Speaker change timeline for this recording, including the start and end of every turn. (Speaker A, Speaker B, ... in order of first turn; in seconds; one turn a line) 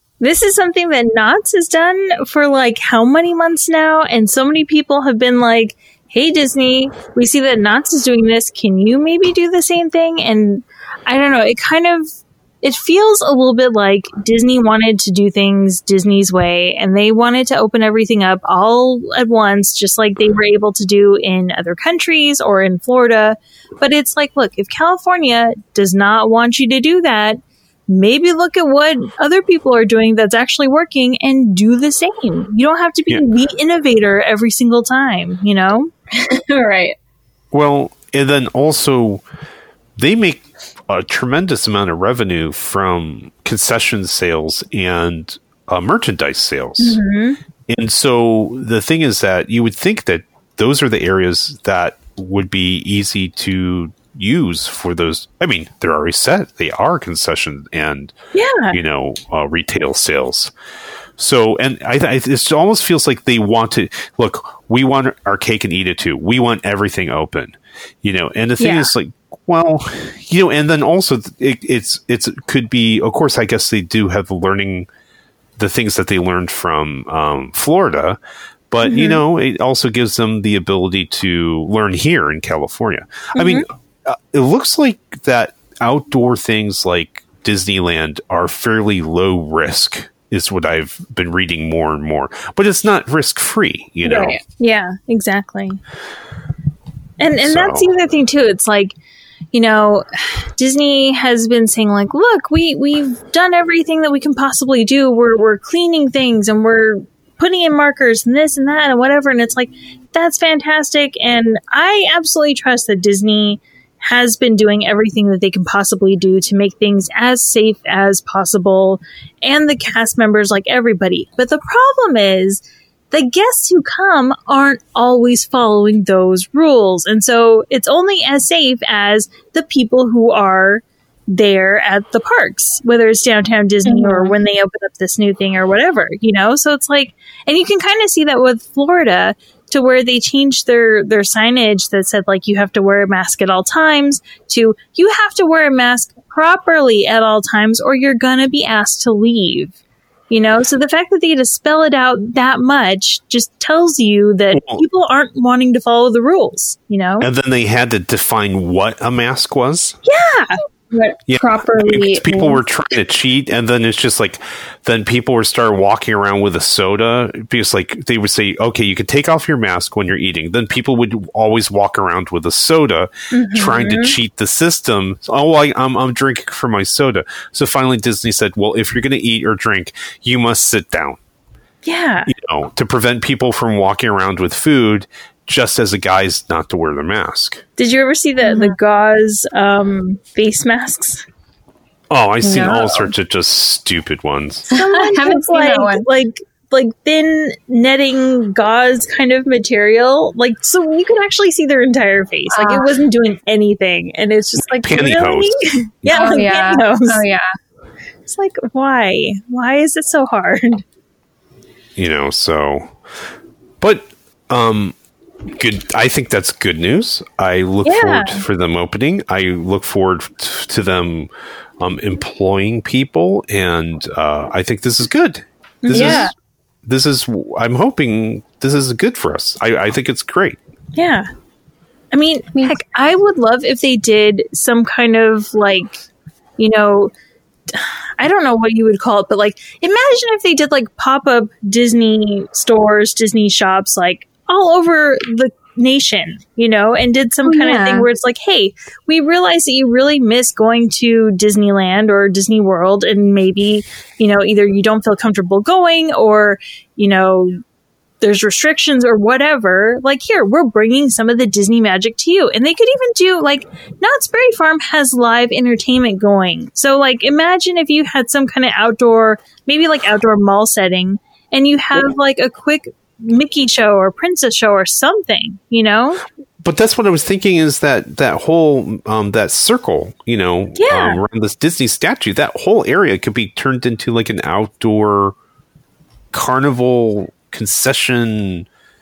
Speaker A: 0.2-12.1
Speaker A: 12.6-35.9
Speaker B: 36.1-37.0
Speaker C: 37.5-39.2
Speaker C: 40.0-47.0
Speaker A: 46.8-47.4
Speaker C: 47.7-58.1
Speaker A: 58.3-58.8
Speaker C: 58.7-60.5
Speaker C: 61.2-74.9
Speaker A: 68.6-68.9
Speaker C: 75.6-78.2
Speaker C: 78.7-94.4
Speaker A: 78.8-79.2
Speaker A: 83.3-83.7
Speaker B: 94.0-94.4
Speaker A: 94.5-95.8
Speaker A: 97.2-99.0
Speaker C: 97.4-97.9
Speaker A: 99.5-149.7
Speaker B: 133.9-134.4
Speaker A: 150.3-157.3
Speaker C: 154.5-154.8
Speaker C: 157.2-160.0
Speaker A: 160.1-160.6
Speaker B: 160.9-162.6
Speaker C: 161.3-181.2
Speaker A: 173.3-174.2
Speaker A: 181.8-182.3
Speaker C: 182.3-187.6
Speaker A: 187.8-191.2
Speaker B: 188.4-188.8
Speaker C: 192.1-194.7
Speaker B: 192.4-193.1
Speaker A: 194.7-207.2
Speaker B: 194.7-196.1
Speaker B: 202.5-202.9
Speaker C: 204.8-206.4
Speaker B: 206.1-207.5
Speaker A: 208.3-210.8
Speaker C: 212.0-212.9
Speaker C: 213.8-214.9
Speaker C: 215.6-221.3
Speaker A: 217.8-218.4
Speaker C: 221.8-226.3
Speaker A: 225.8-226.3
Speaker B: 225.9-226.3
Speaker C: 226.9-230.6
Speaker A: 230.9-231.3
Speaker A: 232.1-236.0
Speaker A: 236.6-237.1
Speaker A: 237.7-257.6
Speaker B: 247.4-248.1
Speaker A: 258.2-276.2
Speaker C: 276.6-285.4
Speaker A: 280.8-281.2
Speaker C: 286.3-288.7